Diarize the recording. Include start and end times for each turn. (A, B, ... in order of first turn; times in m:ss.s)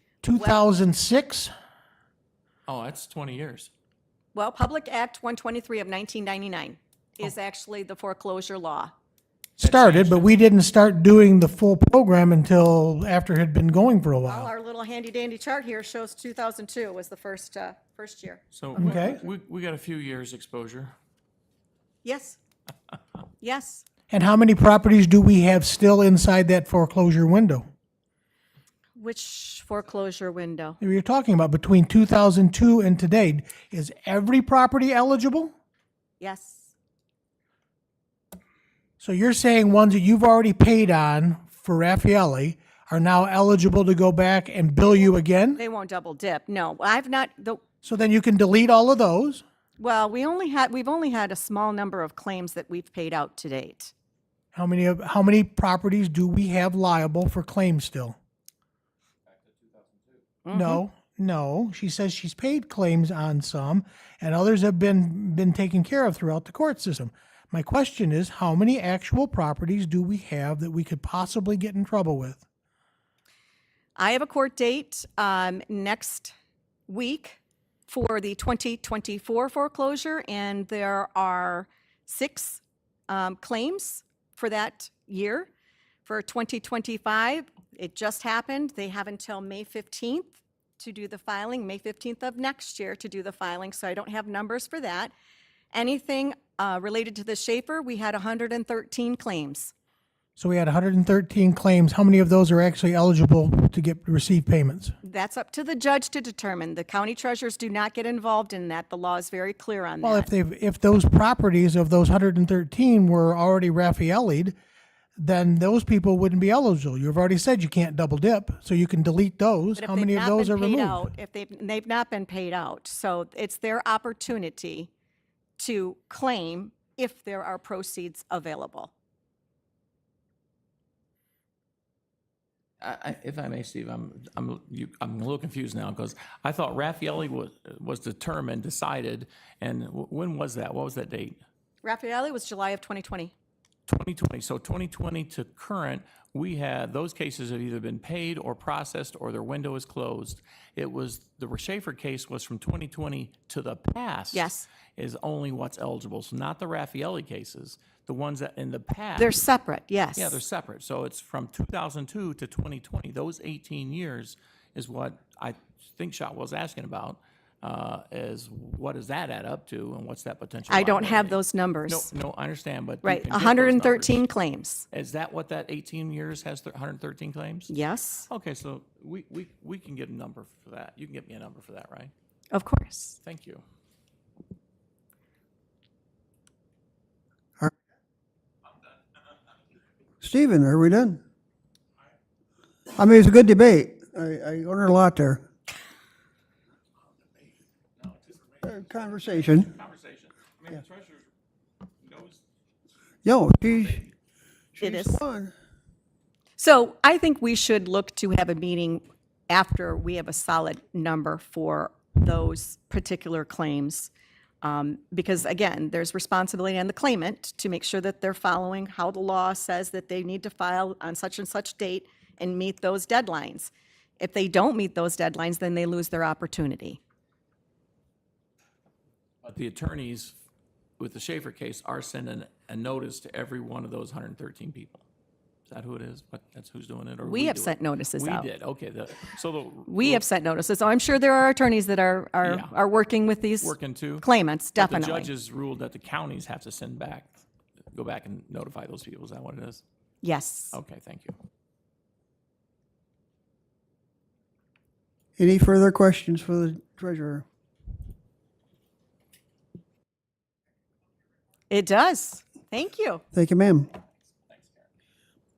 0:00.2-0:01.5 A
0:00.4-0:00.7 B
0:02.7-0:03.7 C
0:04.3-0:08.9 B
0:09.6-0:14.5 A
0:09.6-0:10.3 C
0:14.2-0:18.4 B
0:18.5-0:20.9 C
0:18.8-0:19.2 A
0:22.0-0:22.4 B
0:23.4-0:23.9 B
0:24.1-0:27.7 A
0:29.0-0:30.8 B
0:30.8-0:35.5 A
0:36.2-0:36.7 B
0:39.0-0:45.6 A
0:44.9-0:47.6 B
0:47.8-0:49.4 A
0:49.8-0:53.9 B
0:54.5-0:58.2 A
0:59.3-1:00.2 C
1:00.4-1:00.8 B
1:00.5-1:12.4 A
1:14.0-1:16.3 B
1:16.9-1:25.5 B
1:26.1-1:35.1 B
1:35.7-1:39.7 B
1:40.4-1:45.0 A
1:45.0-1:50.3 B
1:50.0-1:54.6 A
1:55.2-2:01.1 A
1:59.8-2:04.9 B
2:05.6-2:08.9 B
2:12.8-2:21.4 C
2:21.8-2:23.3 B
2:23.9-2:39.4 C
2:34.3-2:34.7 B
2:39.2-2:40.4 B
2:40.2-2:54.2 C
2:50.7-2:52.1 B
2:53.0-2:54.9 B
2:54.9-2:57.7 C
2:57.7-2:58.3 B
2:58.3-3:02.1 C
3:02.5-3:03.2 B
3:03.2-3:03.6 C
3:10.2-3:11.2 D
3:13.0-3:15.4 D
3:18.0-3:18.6 C
3:18.6-3:19.7 D
3:19.4-3:21.3 C
3:22.0-3:22.4 C
3:23.2-3:24.1 D
3:24.8-3:25.5 D
3:24.8-3:25.2 B
3:26.6-3:34.1 B
3:34.6-3:47.0 B
3:49.4-3:50.4 C
3:51.0-3:55.0 C
3:55.7-4:00.2 C
3:57.2-3:58.5 B
3:59.9-4:05.3 B
4:02.4-4:02.7 C
4:03.6-4:04.3 C
4:04.8-4:07.4 C
4:07.9-4:09.8 C
4:10.2-4:10.8 B
4:10.7-4:11.4 C
4:15.4-4:17.4 D
4:21.7-4:23.2 B
4:23.3-4:23.9 D
4:24.5-4:24.9 C